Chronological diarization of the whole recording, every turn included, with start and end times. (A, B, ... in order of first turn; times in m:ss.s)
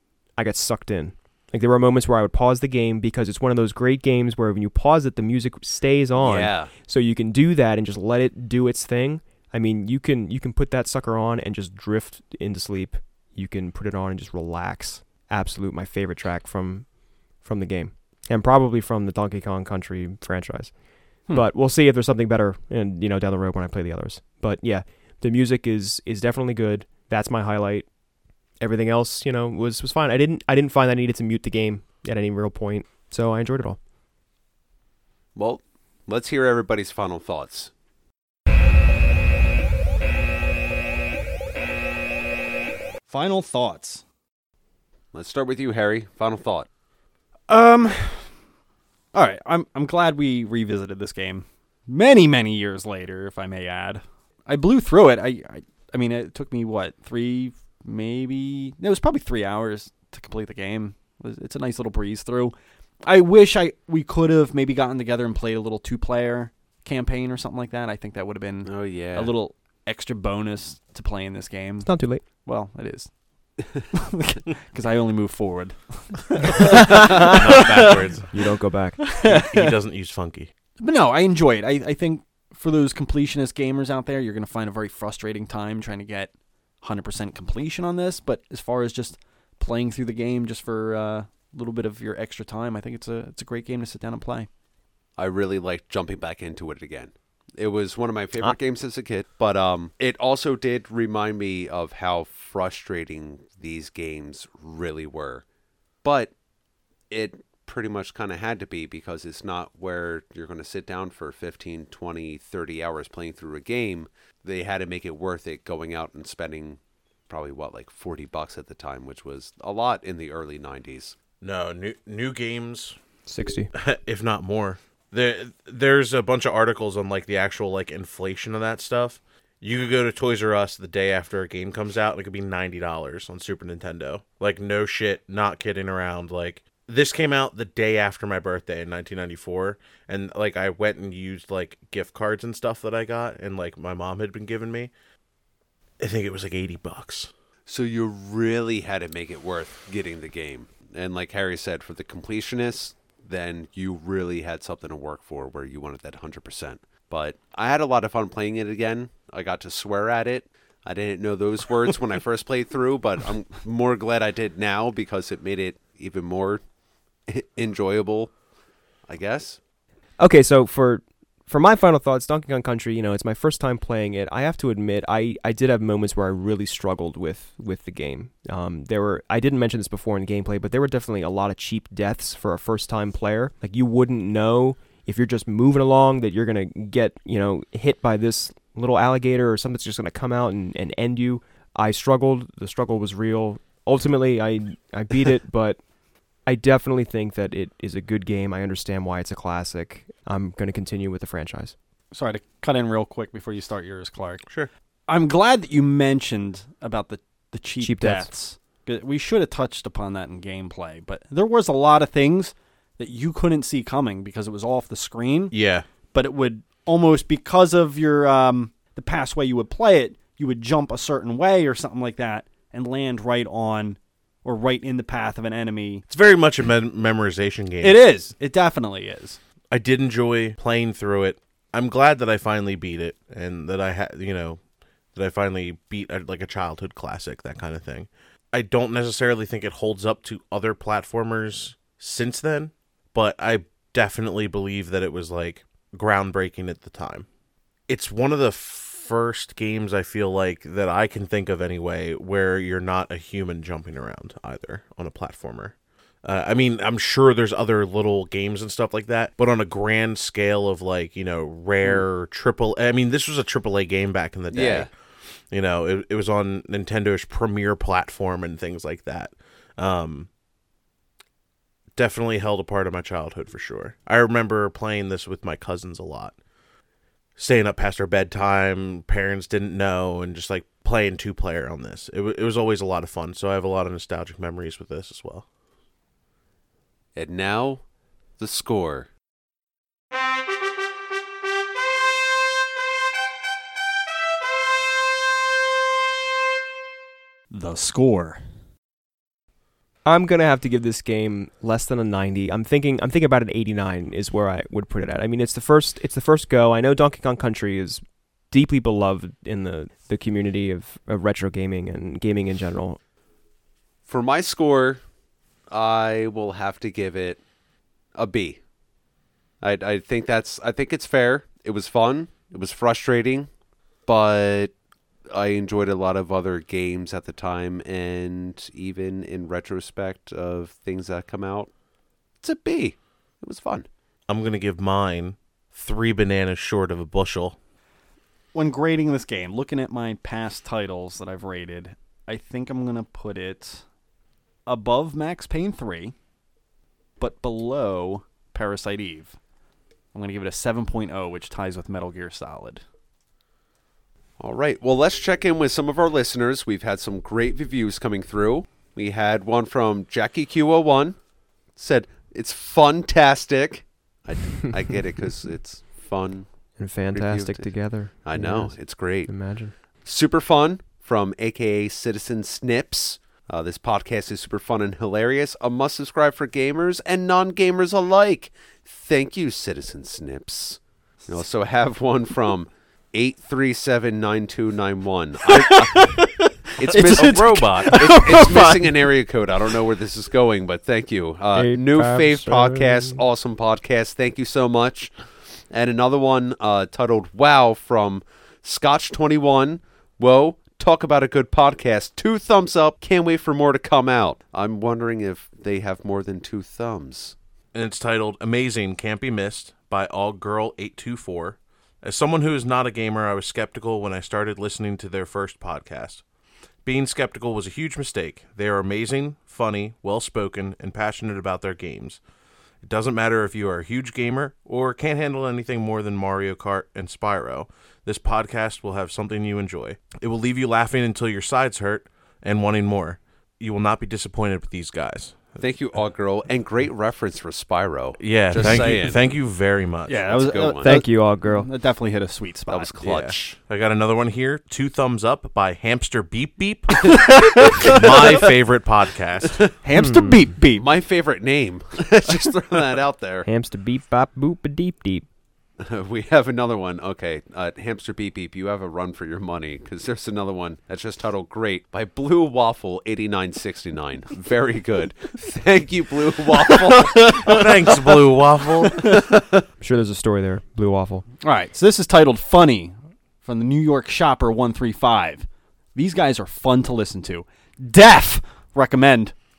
0:00.4-0:16.9 A
0:06.2-0:06.7 B
0:17.4-0:20.7 A
0:21.2-0:27.9 A
0:28.6-0:33.8 A
0:35.3-0:37.7 B
0:43.1-0:44.0 C
0:45.1-0:46.7 B
0:47.5-0:48.3 C
0:49.1-1:13.1 C
1:08.6-1:09.3 B
1:11.8-1:12.2 A
1:13.9-1:18.0 C
1:16.8-1:18.3 D
1:16.8-1:17.3 A
1:18.3-1:19.0 A
1:19.0-1:19.8 C
1:19.2-1:20.5 D
1:20.8-1:34.5 C
1:35.2-1:45.4 B
1:46.0-1:46.3 B
1:47.1-2:01.2 B
2:01.4-2:03.0 D
2:03.3-2:03.7 A
2:03.7-2:24.9 D
2:26.0-2:27.3 D
2:27.6-2:46.6 B
2:47.3-2:48.3 B
2:49.1-2:49.6 B
2:50.2-3:15.8 A
3:16.4-3:21.7 A
3:22.1-3:24.4 C
3:25.1-3:35.6 C
3:27.8-3:28.3 A
3:35.5-3:35.9 D
3:36.1-3:46.0 C
3:46.1-3:48.0 D
3:47.8-3:49.4 C
3:49.7-3:54.6 D
3:55.1-4:07.3 D
4:07.9-4:24.9 D
4:24.5-4:24.9 B
4:25.5-4:30.3 D
4:32.0-4:36.3 D
4:37.4-4:45.4 D
4:47.1-4:47.8 B
4:48.4-4:49.1 B
4:57.5-4:58.4 C
5:00.0-5:13.0 A
5:14.0-5:15.0 B
5:15.7-5:17.4 B
5:18.1-5:18.6 B
5:19.6-5:23.5 B
5:24.0-5:24.7 B
5:25.3-5:31.7 B
5:32.4-5:33.9 B
5:34.3-5:37.6 D
5:38.5-5:43.8 C
5:44.6-5:46.1 C
5:47.2-5:49.4 C
5:50.1-5:52.8 C
5:54.4-6:01.2 B
6:01.8-6:06.5 B
6:06.8-6:09.7 A
6:07.1-6:07.7 B
6:08.2-6:09.3 B
6:10.0-6:26.2 B
6:25.4-6:29.1 C
6:26.8-6:35.1 B
6:31.6-6:33.2 A
6:35.7-6:47.3 B
6:47.7-6:56.2 D
6:56.8-7:02.2 D
7:02.8-7:15.6 D
7:15.6-7:19.3 B
7:18.2-7:20.3 D
7:20.1-7:22.9 C
7:20.3-7:21.0 B
7:20.8-7:21.7 A
7:22.7-7:23.6 B
7:23.0-7:29.6 D
7:27.0-7:28.3 C
7:27.2-7:28.4 B
7:29.8-7:30.9 C
7:30.0-7:30.5 A
7:30.8-7:33.5 B
7:33.4-7:35.3 A
7:35.8-7:47.9 B
7:47.2-7:47.9 C
7:47.4-7:49.0 D
7:48.9-7:49.6 B
7:49.8-7:51.2 A
7:51.4-7:59.3 C